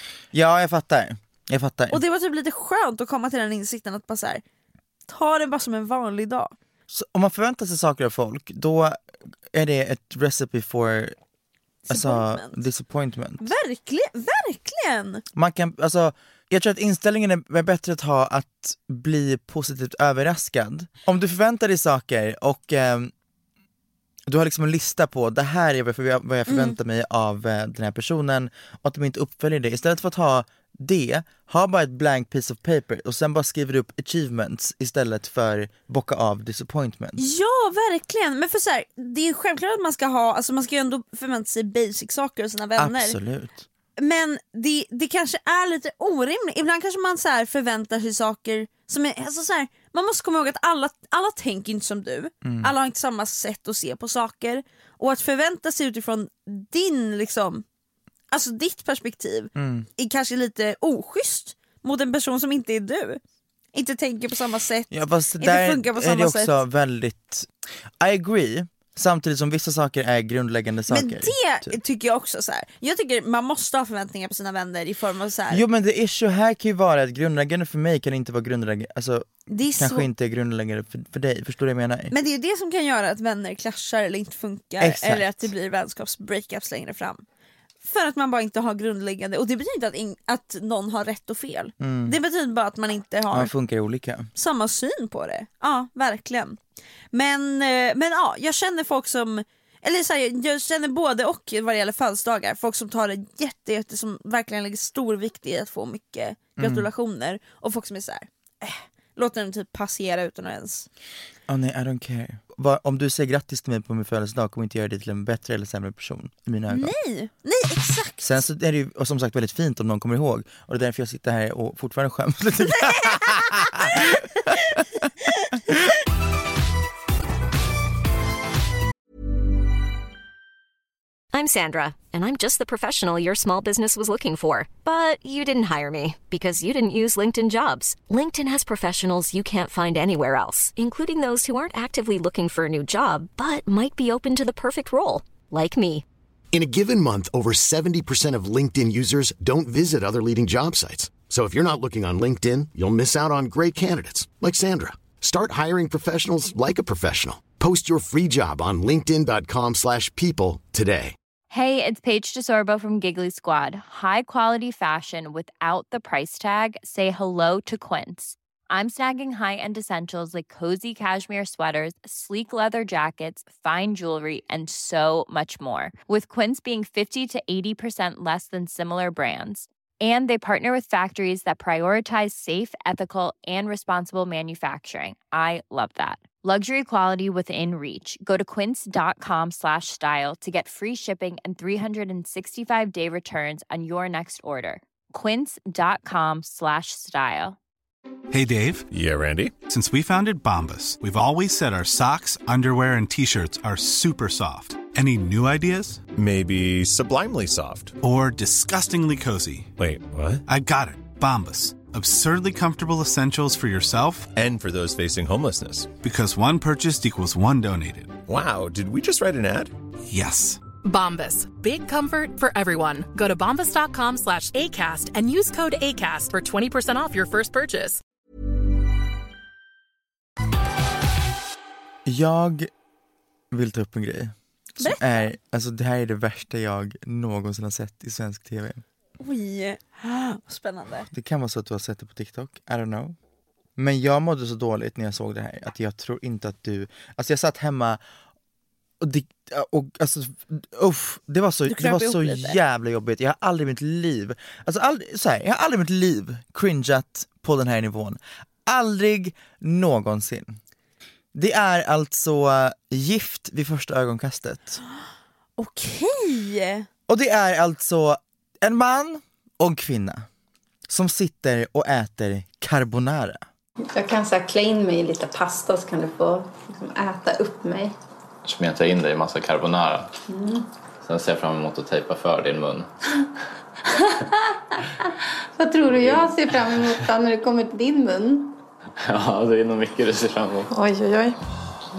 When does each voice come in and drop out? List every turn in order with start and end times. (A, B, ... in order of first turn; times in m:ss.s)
0:00.3-0:02.0 A
0:01.9-0:04.4 B
0:05.1-0:06.6 B
0:06.9-0:09.0 A
0:09.5-0:11.2 A
0:11.9-0:12.6 B
0:11.9-0:13.5 A
0:13.4-0:15.2 B
0:15.4-0:23.1 A
0:24.3-0:37.2 A
0:26.5-0:26.8 B
0:37.2-0:43.2 B
0:42.8-0:43.7 A
0:44.0-0:57.6 B
0:52.4-0:52.7 A
0:58.3-1:03.2 B
0:59.6-0:59.9 A
1:03.7-1:06.6 B
1:04.9-1:11.8 A
1:10.9-1:15.6 B
1:15.5-1:22.1 A
1:19.5-1:20.1 B
1:22.1-1:27.2 B
1:24.8-1:25.5 A
1:27.8-1:33.5 B
1:31.8-1:32.2 A
1:33.3-1:34.3 A
1:34.4-1:36.6 B
1:37.1-1:50.9 B
1:46.6-1:46.9 A
1:51.5-1:56.9 A
1:56.7-1:58.4 B
1:58.2-2:05.0 A
2:02.6-2:04.1 B
2:05.3-2:05.7 B
2:11.3-2:26.0 C
2:26.5-2:41.2 D
2:41.5-3:17.6 E
3:18.3-3:18.9 F
3:18.9-3:19.6 G
3:19.7-3:26.0 F
3:26.2-3:28.0 G
3:28.0-3:29.7 F
3:29.8-3:30.4 G
3:30.5-3:34.3 F
3:34.3-3:35.9 G
3:36.0-3:38.2 F
3:38.3-3:39.7 G
3:40.1-3:40.6 F
3:40.8-3:48.0 H
3:52.1-3:52.7 A
3:53.5-3:58.8 A
3:54.8-3:55.3 B
3:59.2-4:01.1 B
4:01.1-4:03.2 A
4:03.8-4:08.0 A
4:09.0-4:20.6 A
4:11.7-4:12.6 B
4:21.3-4:24.8 A
4:25.6-4:26.9 B
4:27.1-4:30.3 A
4:30.9-4:33.4 A
4:33.9-4:37.9 I
4:38.4-4:40.1 J
4:40.3-4:40.7 I
4:41.0-4:42.9 J
4:45.6-4:48.6 I
4:46.0-4:46.9 J
4:49.0-4:50.7 J
4:50.7-4:51.4 I